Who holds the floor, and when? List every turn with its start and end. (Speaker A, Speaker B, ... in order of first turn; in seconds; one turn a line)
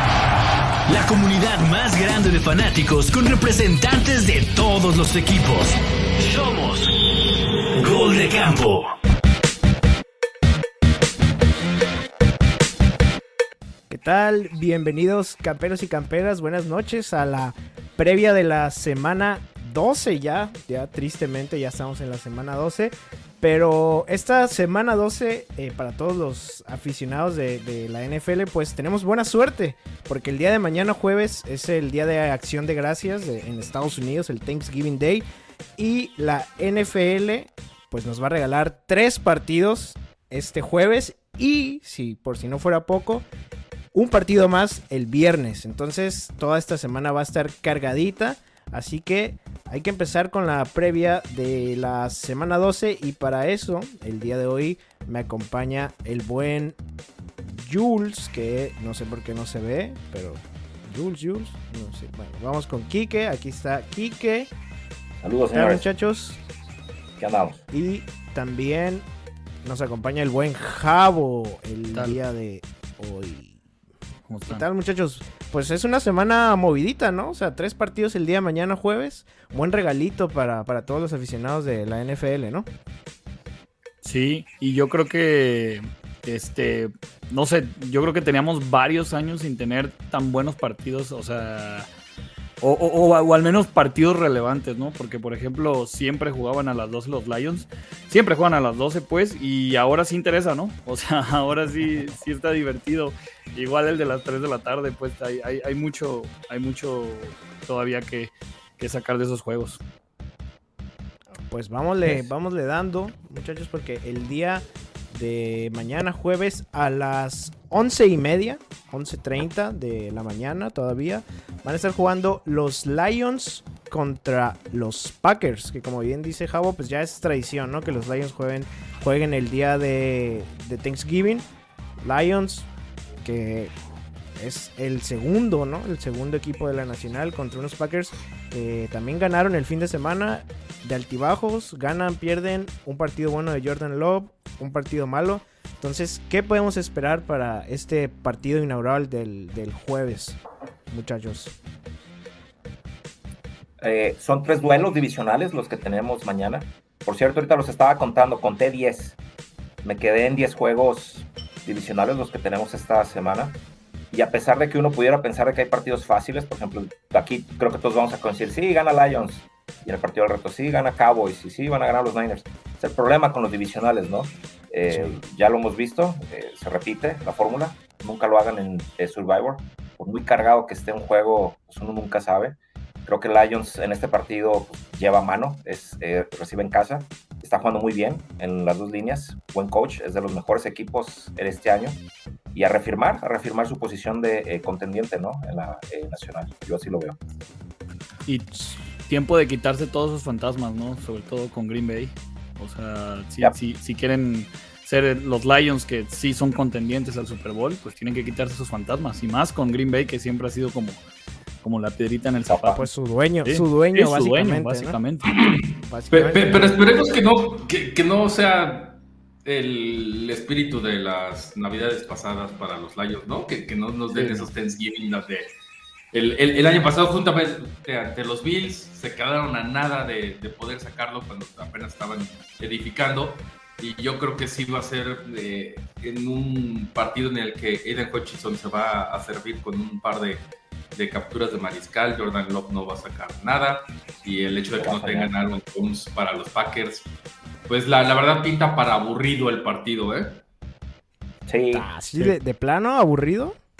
Speaker A: 0.9-6.9
Speaker A: 7.7-8.9
Speaker B: 13.9-35.2
Speaker B: 35.8-43.2
Speaker B: 43.9-56.7
Speaker B: 57.4-64.5
Speaker C: 65.2-65.8
Speaker B: 65.5-66.4
Speaker C: 67.2-67.6
Speaker B: 67.7-69.0
Speaker B: 69.6-73.6
Speaker D: 74.3-74.7
Speaker B: 74.5-82.7
Speaker D: 84.0-91.9
Speaker D: 92.6-109.8
Speaker B: 111.5-131.4
Speaker B: 132.0-132.7
Speaker B: 133.2-133.7
Speaker B: 134.3-150.4
Speaker B: 150.9-151.5
Speaker C: 153.8-159.2
Speaker C: 159.8-163.6
Speaker C: 164.1-192.0
Speaker C: 192.5-197.2
Speaker D: 198.3-211.0
Speaker D: 211.6-212.8
Speaker C: 212.5-212.8
Speaker B: 212.8-215.0
Speaker D: 213.4-215.3
Speaker E: 215.3-225.5
Speaker B: 215.9-217.0
Speaker D: 224.1-224.5
Speaker E: 226.1-240.4
Speaker E: 240.9-247.1
Speaker C: 244.8-245.3
Speaker E: 247.7-250.4
Speaker C: 251.5-251.9
Speaker B: 251.7-253.6